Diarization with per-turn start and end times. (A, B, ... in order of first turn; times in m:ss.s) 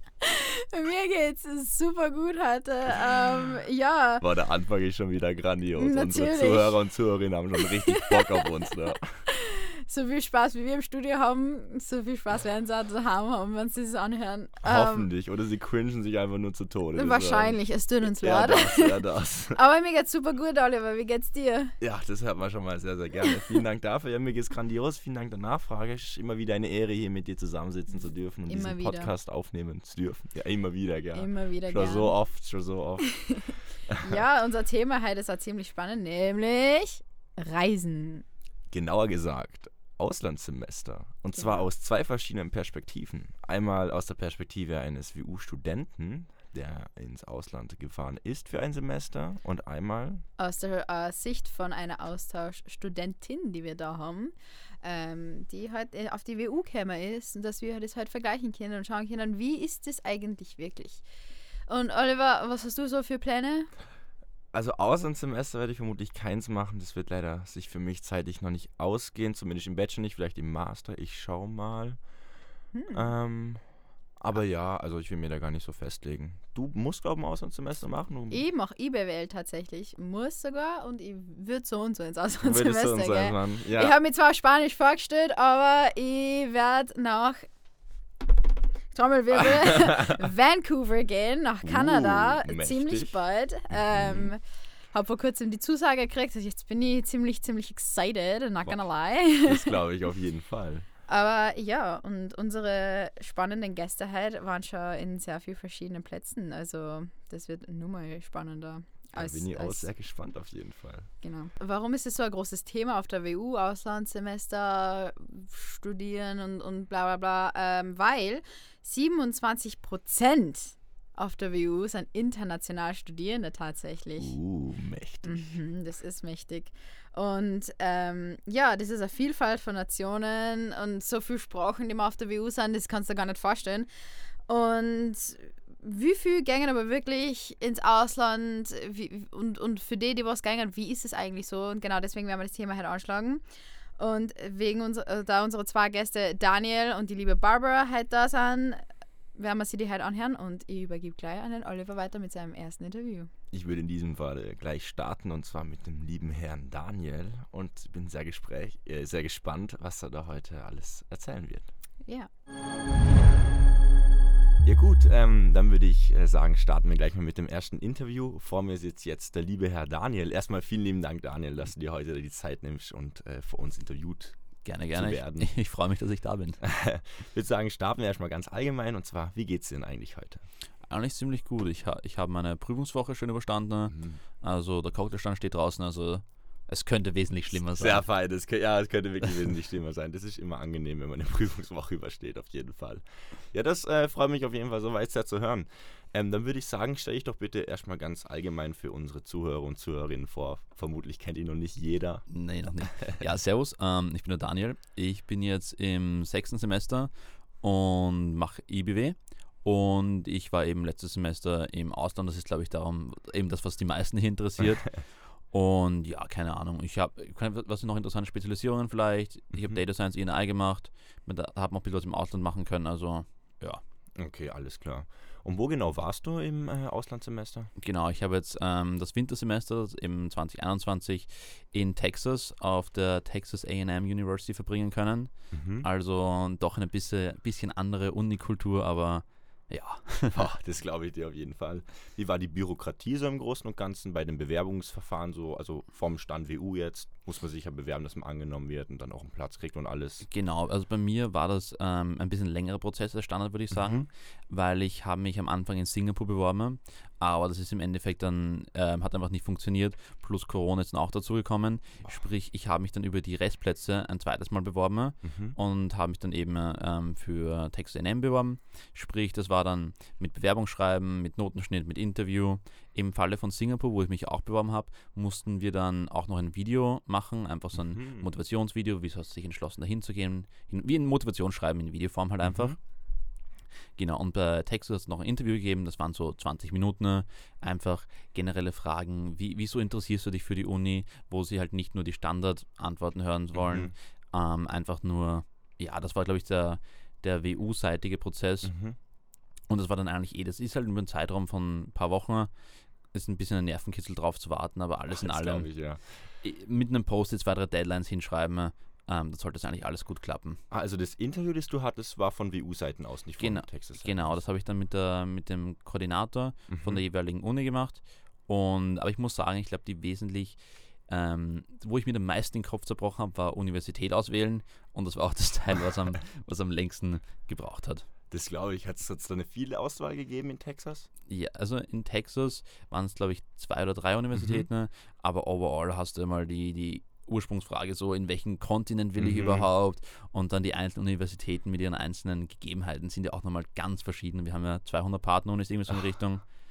0:00.2-0:04.2 A
0:04.2-0:09.2 B
0:05.8-0:06.8 A
0:07.9-0:08.3 A
0:09.3-0:15.1 A
0:14.6-0:17.6 B
0:17.0-0:21.8 A
0:18.2-0:19.6 B
0:21.8-0:33.3 B
0:28.5-0:29.1 A
0:31.1-0:32.2 A
0:33.1-0:38.2 A
0:33.9-0:34.2 B
0:38.7-0:50.2 B
0:41.4-0:41.6 A
0:50.4-1:01.0 A
1:01.7-1:03.7 A
1:04.5-1:12.0 B
1:12.7-1:13.1 A
1:12.9-1:13.6 B
1:14.2-1:18.4 B
1:18.3-1:27.5 A
1:22.4-1:24.0 B
1:28.9-1:39.8 A
1:31.6-1:33.2 B
1:33.9-1:34.3 B
1:39.4-1:40.9 B
1:41.1-1:49.9 A
1:49.2-1:51.1 B
1:51.2-2:04.4 A
2:04.2-2:05.5 B
2:05.2-2:13.9 A
2:14.5-2:23.4 A
2:24.0-2:33.3 A
2:33.5-2:41.7 B
2:44.6-2:54.4 B
2:54.6-2:56.6 C
2:54.9-2:55.5 B
2:56.6-3:00.5 B
3:00.9-3:08.0 C
3:03.9-3:04.2 B
3:07.7-3:22.3 B
3:22.3-3:43.8 C
3:44.2-3:47.7 B
3:47.8-4:00.4 C
3:55.5-3:55.9 B
4:00.3-4:10.3 B
4:10.3-4:42.8 C
4:13.7-4:14.1 B
4:25.2-4:25.6 B
4:37.8-4:38.3 B
4:42.4-4:42.8 B
4:44.0-4:58.7 C
4:53.5-4:53.9 B
4:58.6-4:59.0 B
4:59.7-5:02.5 C
5:03.1-5:10.6 C
5:05.1-5:06.1 B
5:10.7-5:14.4 B
5:13.4-5:28.1 C
5:16.7-5:17.0 B
5:28.3-5:31.1 B
5:31.3-5:46.4 C
5:34.4-5:34.7 B
5:39.2-5:39.7 B